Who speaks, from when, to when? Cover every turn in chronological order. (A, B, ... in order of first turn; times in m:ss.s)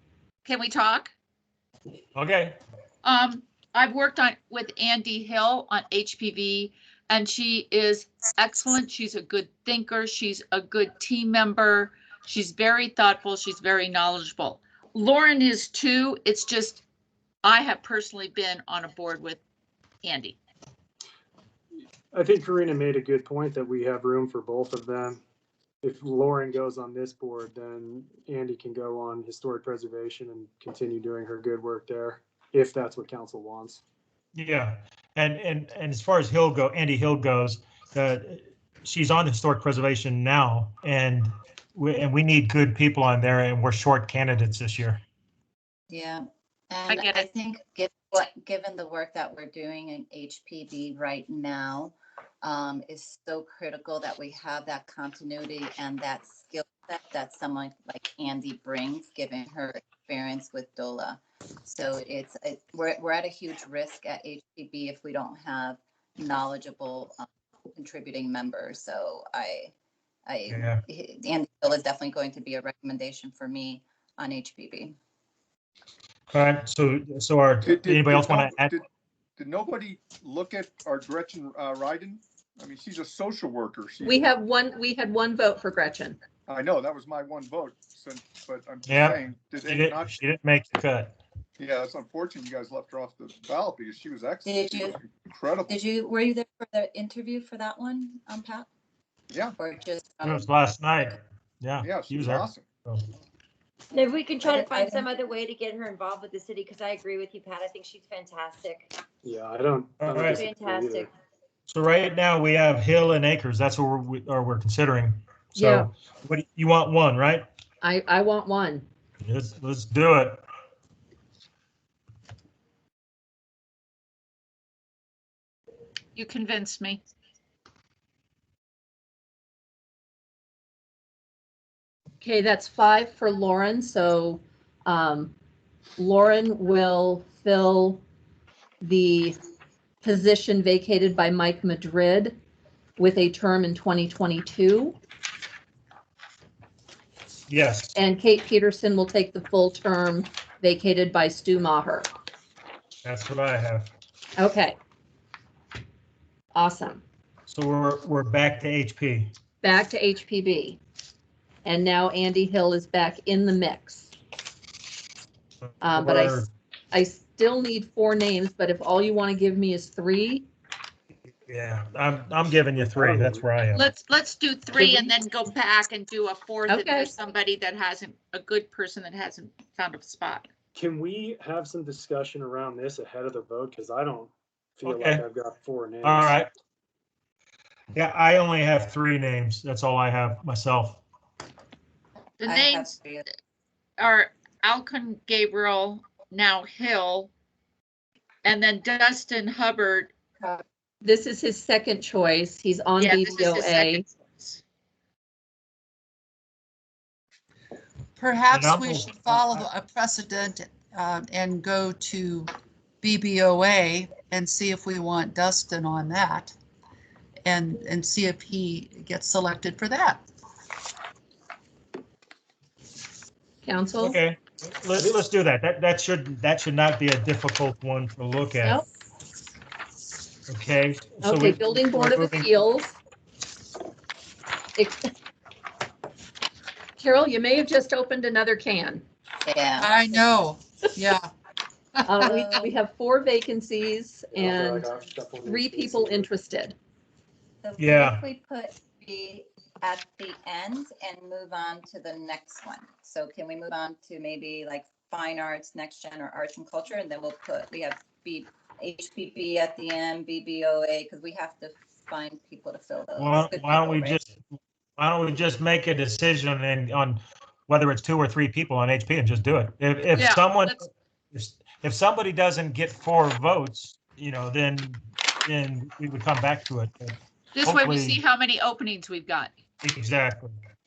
0:00.4-0:01.1 A
0:02.1-0:02.6 B
0:03.0-0:16.8 A
0:17.4-0:19.4 A
0:20.0-0:20.4 A
0:22.1-0:25.2 C
0:25.8-0:33.8 C
0:34.3-0:45.0 B
0:45.9-1:09.7 D
0:46.9-0:47.2 A
1:10.2-1:15.0 D
1:10.5-1:10.8 B
1:16.3-1:18.7 B
1:17.6-1:18.8 E
1:19.4-1:24.3 E
1:24.0-1:26.2 F
1:26.5-1:30.2 E
1:28.9-1:31.2 B
1:31.6-1:35.8 E
1:34.4-1:35.0 D
1:35.7-1:38.7 D
1:39.6-1:40.5 D
1:40.2-1:43.1 B
1:41.8-1:42.7 E
1:43.9-1:48.9 G
1:44.4-1:45.1 D
1:49.2-1:51.0 C
1:50.0-1:50.4 B
1:50.3-1:51.1 G
1:51.7-1:57.5 B
1:55.6-1:55.9 F
1:57.8-1:58.8 F
1:59.2-2:00.4 B
2:06.1-2:07.0 A
2:12.2-2:15.3 F
2:16.0-2:18.0 F
2:18.8-2:19.4 F
2:20.0-2:22.4 F
2:23.0-2:25.0 F
2:27.5-2:27.9 B
2:27.9-2:32.1 F
2:33.0-2:33.9 B
2:34.4-2:34.8 F
2:36.5-2:37.0 F
2:37.5-2:39.3 B
2:39.6-2:40.8 F
2:41.6-2:44.1 F
2:45.7-2:46.5 B
2:45.8-2:50.5 F
2:51.3-2:53.8 B
2:52.8-2:53.4 C
2:53.7-3:00.4 A
2:54.7-2:55.1 F
2:56.7-2:57.1 F
3:00.8-3:04.3 C
3:04.8-3:06.4 C
3:04.8-3:05.2 B
3:06.0-3:06.5 B
3:07.9-3:11.0 B
3:12.4-3:13.0 A
3:12.4-3:13.3 D
3:14.0-3:17.3 A
3:18.4-3:20.1 A
3:21.0-3:24.0 F
3:23.0-3:24.6 A
3:28.2-3:32.5 H
3:28.5-3:29.6 B
3:33.0-3:36.5 H
3:37.4-3:40.2 H
3:43.6-3:44.2 F
3:44.0-3:48.8 B
3:50.5-3:52.6 B
3:51.2-3:53.0 F
3:54.8-3:55.1 F
3:57.0-3:59.0 F
3:59.4-4:00.2 D
3:59.8-4:01.3 H
4:02.1-4:04.9 F
4:02.2-4:02.7 D
4:04.3-4:06.3 C
4:05.4-4:06.7 F
4:07.6-4:24.2 D
4:07.8-4:08.2 B
4:23.2-4:24.4 B
4:25.0-4:38.2 B
4:30.1-4:30.8 A
4:37.5-4:39.5 A
4:39.8-4:40.5 B